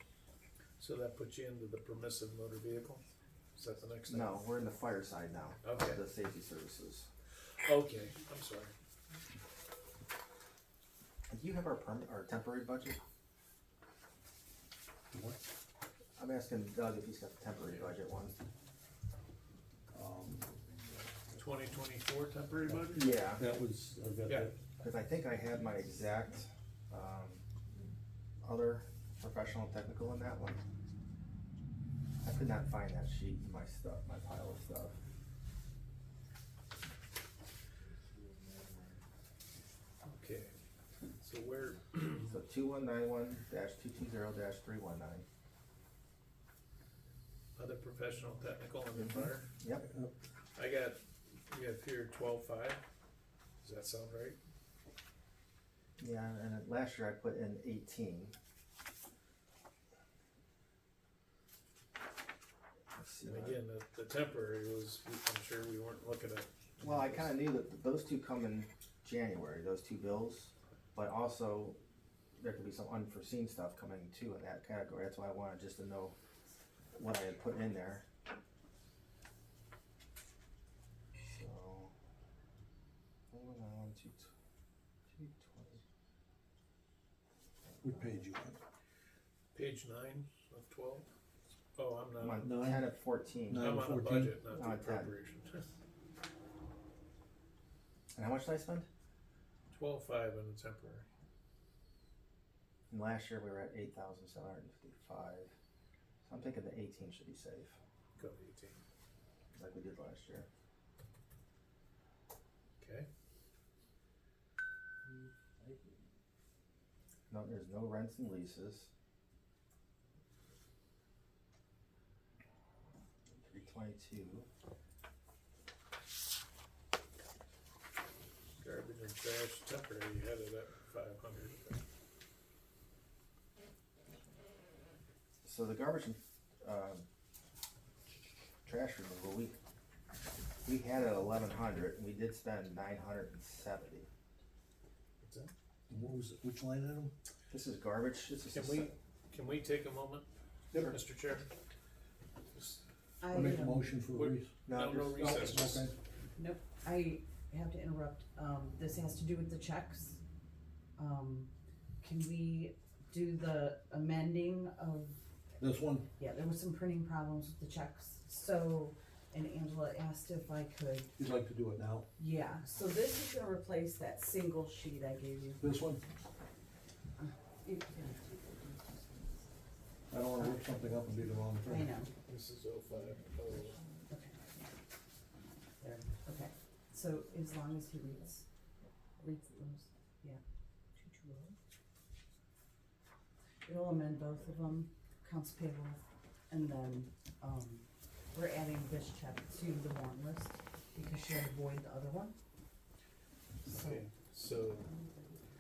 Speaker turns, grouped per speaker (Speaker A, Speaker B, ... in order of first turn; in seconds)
Speaker A: 0.8-3.0, 3.6-4.4, 5.6-6.0, 7.6-8.7, 21.4-23.1, 40.0-40.6, 41.2-42.3, 47.6-49.5, 50.6-52.8, 53.6-54.4, 63.2-67.3, 89.5-91.1, 91.8-92.4, 93.6-95.7, 99.7-101.1, 108.2-108.8, 112.8-113.1, 128.6-131.8, 145.2-145.5, 148.5-151.5, 152.5-152.8, 154.1-155.9, 182.3-183.8, 203.7-204.9
Speaker B: 4.1-7.1, 11.3-13.0, 16.2-18.4, 22.9-23.5, 24.8-27.4, 28.4-30.6, 32.2-35.0, 42.2-45.3, 49.0-49.9, 56.0-58.4, 63.0-63.6, 66.8-71.8, 72.4-76.2, 77.0-78.1, 81.2-81.9, 83.3-84.3, 85.1-85.8, 92.2-93.8, 94.5-95.1, 98.2-98.9, 102.9-105.5, 106.2-107.8, 109.5-110.5, 117.3-118.9, 123.3-124.5, 135.4-137.1, 138.7-139.6, 140.7-144.1, 147.5-148.9, 154.7-155.8
Speaker C: 15.1-15.4, 19.9-20.5, 23.3-24.6, 49.9-50.1, 87.8-88.6, 92.4-92.9, 93.5-94.4, 145.9-147.1, 153.3-154.6, 155.2-156.0, 165.6-166.1, 171.2-172.1, 175.6-176.0, 180.1-181.9
Speaker D: 153.2-154.0, 156.4-160.2, 161.0-165.2, 166.2-171.1, 172.2-175.6, 177.2-179.4, 180.4-180.8, 181.6-182.1, 184.1-184.6, 185.8-188.5, 189.2-190.4, 191.0-191.4, 193.7-202.3, 203.7-204.1, 204.9-205.3